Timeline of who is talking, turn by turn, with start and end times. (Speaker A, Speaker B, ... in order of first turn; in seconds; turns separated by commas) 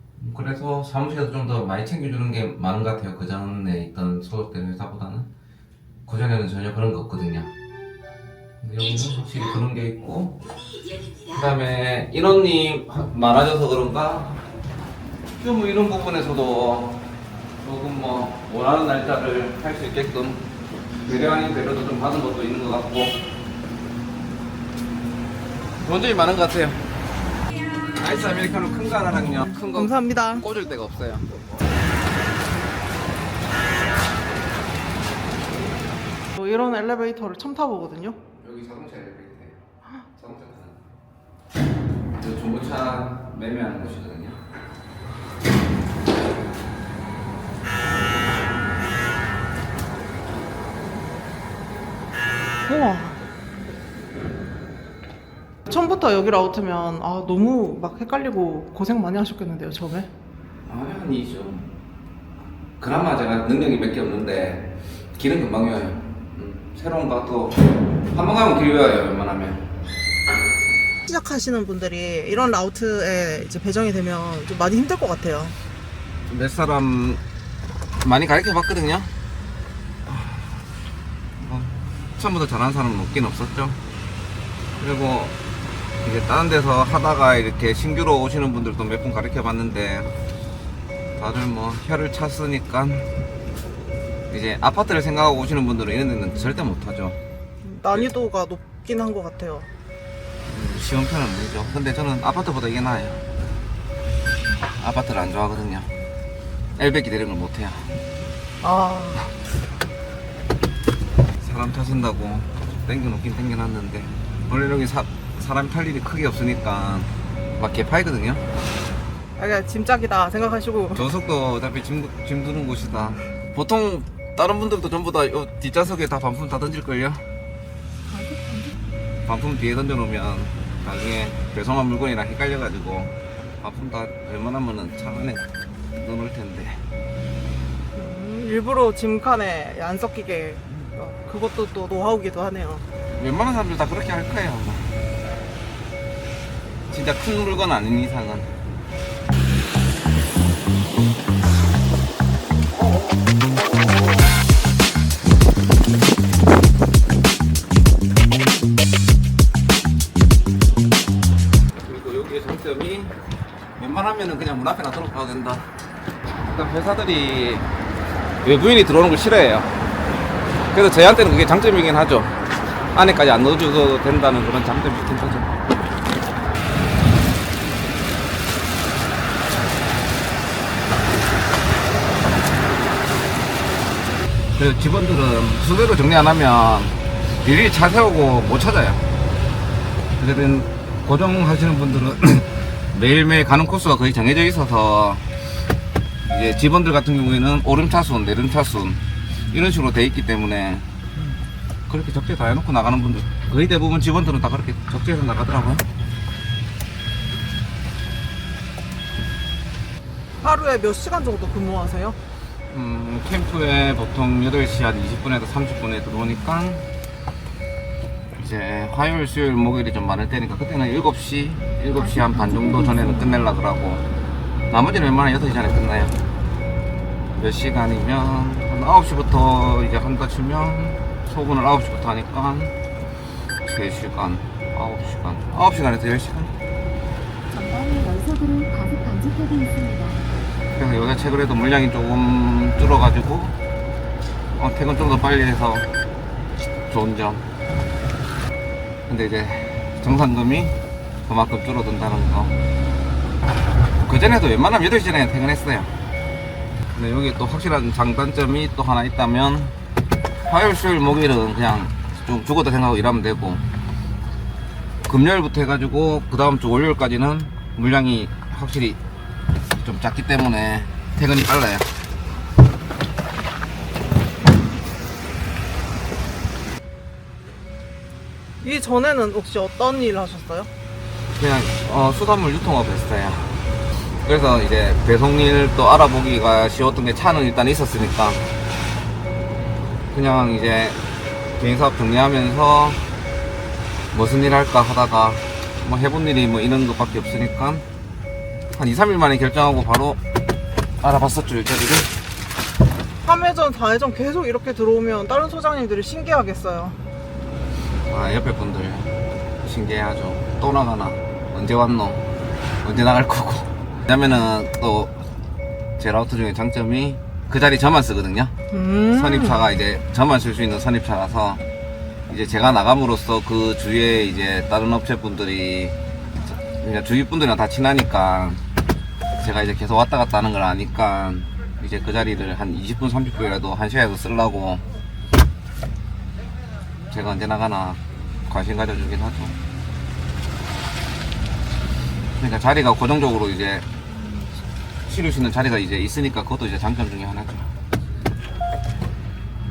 Speaker A: 0.1-5.3, Speaker A: 6.0-7.5, Speaker A: 8.6-10.5, Speaker A: 11.1-14.4, Speaker A: 15.4-17.1, Speaker A: 17.6-20.5, Speaker A: 21.0-23.2, Speaker A: 25.8-26.9, Speaker A: 27.8-31.4, Speaker B: 29.7-30.4, Speaker B: 36.3-38.2, Speaker A: 38.3-39.6, Speaker A: 40.1-40.8, Speaker A: 42.1-44.4, Speaker B: 52.6-53.2, Speaker B: 55.7-60.1, Speaker A: 60.6-61.7, Speaker A: 62.8-69.7, Speaker B: 71.0-75.5, Speaker A: 76.3-77.2, Speaker A: 78.0-79.1, Speaker A: 80.1-80.5, Speaker A: 81.4-83.8, Speaker A: 84.8-85.4, Speaker A: 86.0-90.1, Speaker A: 91.2-93.1, Speaker A: 94.3-97.2, Speaker B: 97.6-99.7, Speaker A: 100.5-103.2, Speaker A: 104.6-105.9, Speaker A: 106.7-107.9, Speaker B: 108.6-109.2, Speaker A: 111.4-118.4, Speaker B: 119.4-121.0, Speaker A: 121.0-127.2, Speaker C: 128.1-128.8, Speaker A: 129.2-136.8, Speaker B: 137.9-142.8, Speaker A: 143.1-145.0, Speaker A: 146.9-148.5, Speaker A: 161.8-163.2, Speaker A: 163.8-165.7, Speaker A: 166.4-167.7, Speaker A: 168.4-169.7, Speaker A: 170.7-172.3, Speaker A: 172.9-175.6, Speaker A: 184.6-189.1, Speaker A: 190.2-195.3, Speaker A: 196.2-200.9, Speaker A: 201.9-205.8, Speaker B: 210.4-212.2, Speaker A: 212.7-216.9, Speaker A: 218.3-224.1, Speaker C: 221.9-223.4, Speaker A: 224.7-226.2, Speaker A: 227.3-232.8, Speaker A: 233.6-236.5, Speaker C: 237.5-240.2, Speaker A: 240.8-243.6, Speaker A: 244.5-246.0, Speaker A: 246.9-247.5, Speaker A: 249.1-252.6, Speaker A: 254.0-255.9, Speaker A: 256.9-259.8, Speaker A: 260.4-263.6, Speaker A: 265.0-269.0, Speaker A: 269.8-271.9, Speaker B: 278.6-280.7, Speaker A: 281.3-283.6, Speaker A: 284.2-288.5, Speaker A: 290.1-291.0, Speaker A: 291.6-293.1, Speaker A: 294.1-297.9, Speaker A: 298.7-300.2, Speaker A: 301.0-302.1, Speaker B: 303.2-307.0, Speaker A: 308.1-312.3, Speaker A: 312.8-315.2, Speaker A: 316.0-318.5, Speaker B: 318.7-319.6, Speaker A: 319.1-321.6, Speaker A: 322.3-325.9, Speaker A: 326.6-328.6, Speaker A: 329.4-334.8, Speaker A: 337.1-339.6, Speaker A: 342.4-343.9, Speaker A: 345.0-347.7